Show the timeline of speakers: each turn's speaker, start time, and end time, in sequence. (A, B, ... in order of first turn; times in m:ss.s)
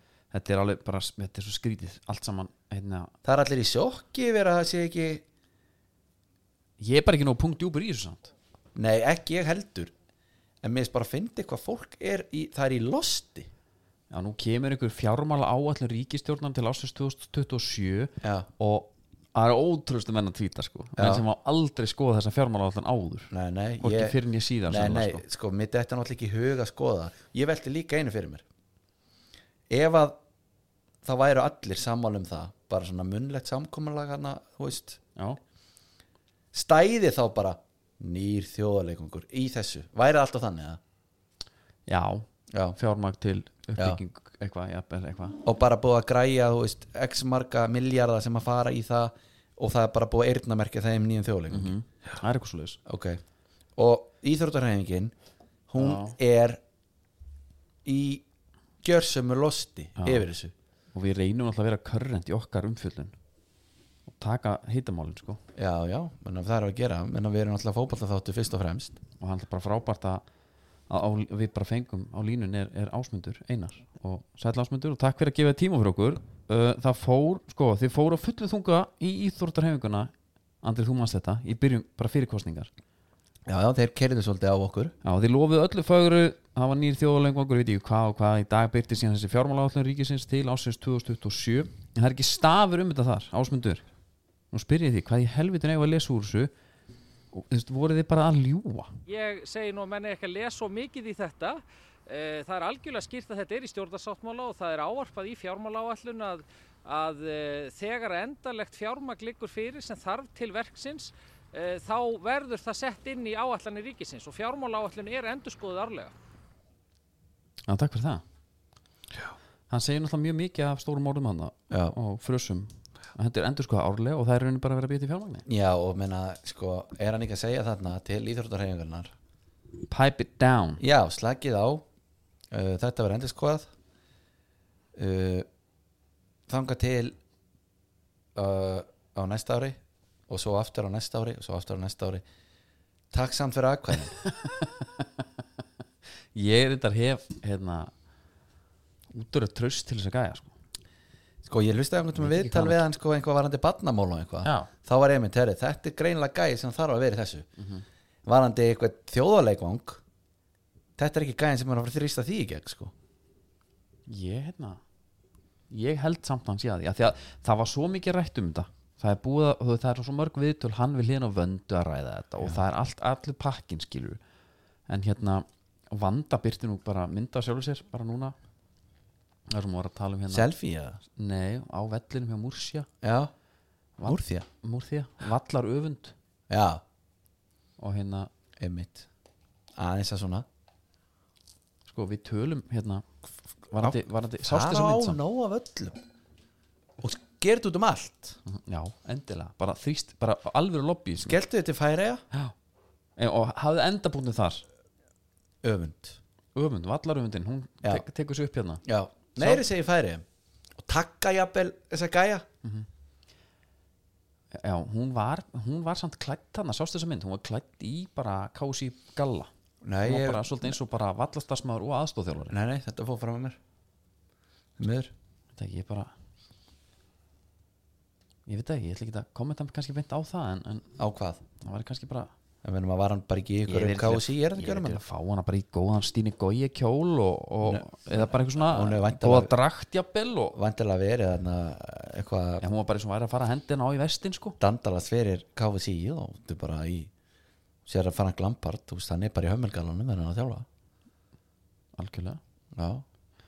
0:00.3-0:03.1 A
0:03.2-0:05.2 B
0:06.8-0:08.3 A
0:08.8-0:09.9 B
0:10.6-0:13.5 B
0:14.1-0:25.2 A
0:18.2-0:18.5 B
0:21.0-0:21.2 B
0:23.3-0:28.4 B
0:29.7-0:30.2 B
0:31.0-0:35.0 B
0:36.5-0:40.8 B
0:41.9-0:45.4 A
0:42.5-0:42.8 B
0:45.4-0:51.8 B
0:51.5-0:52.8 A
0:52.9-0:53.2 B
0:53.8-0:55.1 B
0:55.7-0:56.6 B
0:55.8-0:56.2 A
0:57.8-0:58.2 B
0:58.8-1:00.5 B
1:00.0-1:00.3 A
1:00.9-1:03.1 A
1:04.1-1:05.4 A
1:05.6-1:09.0 B
1:09.2-1:10.2 A
1:10.9-1:22.7 A
1:23.5-1:24.9 B
1:25.0-1:33.9 A
1:34.5-1:36.5 A
1:37.3-1:38.9 A
1:39.1-1:56.1 C
1:57.7-1:58.2 A
1:59.7-2:05.4 A
2:01.7-2:02.0 B
2:05.5-2:09.1 B
2:09.9-2:10.8 A
2:10.8-2:11.9 B
2:12.5-2:13.7 B
2:15.0-2:15.5 B
2:16.5-2:17.2 B
2:18.4-2:19.8 B
2:20.3-2:22.2 B
2:23.1-2:24.2 B
2:24.2-2:25.2 A
2:26.4-2:27.9 A
2:29.1-2:30.6 A
2:31.4-2:37.5 B
2:32.2-2:32.8 A
2:34.4-2:34.7 A
2:37.6-2:37.8 A
2:38.2-2:40.0 B
2:41.0-2:42.9 B
2:44.1-2:44.8 A
2:45.7-2:54.2 A
2:54.9-2:58.4 A
2:59.5-3:00.5 A
3:00.3-3:01.0 B
3:01.2-3:02.9 A
3:03.0-3:03.3 B
3:04.0-3:06.1 A
3:04.0-3:04.5 B
3:06.5-3:06.8 B
3:07.8-3:08.3 A
3:08.6-3:09.1 B
3:09.8-3:10.5 B
3:11.9-3:13.0 A
3:13.7-3:15.2 A
3:13.8-3:16.0 B
3:17.0-3:18.4 B
3:18.5-3:21.4 A
3:21.2-3:22.2 B
3:23.2-3:24.6 A
3:25.6-3:26.2 B
3:26.6-3:28.8 A
3:28.8-3:30.2 B
3:29.4-3:29.6 A
3:30.8-3:32.5 B
3:34.5-3:39.5 A
3:39.8-3:40.8 B
3:40.0-3:42.5 A
3:42.5-3:43.6 B
3:44.8-3:45.1 B
3:45.6-3:46.1 A
3:48.5-3:50.9 A
3:51.0-3:51.4 B
3:51.6-3:52.3 A
3:52.6-3:55.0 B
3:53.7-4:00.6 A
3:57.6-3:59.5 B
4:00.6-4:02.6 B
4:02.6-4:04.6 A
4:04.6-4:07.1 B
4:07.9-4:10.7 B
4:12.0-4:12.4 A
4:12.8-4:13.0 B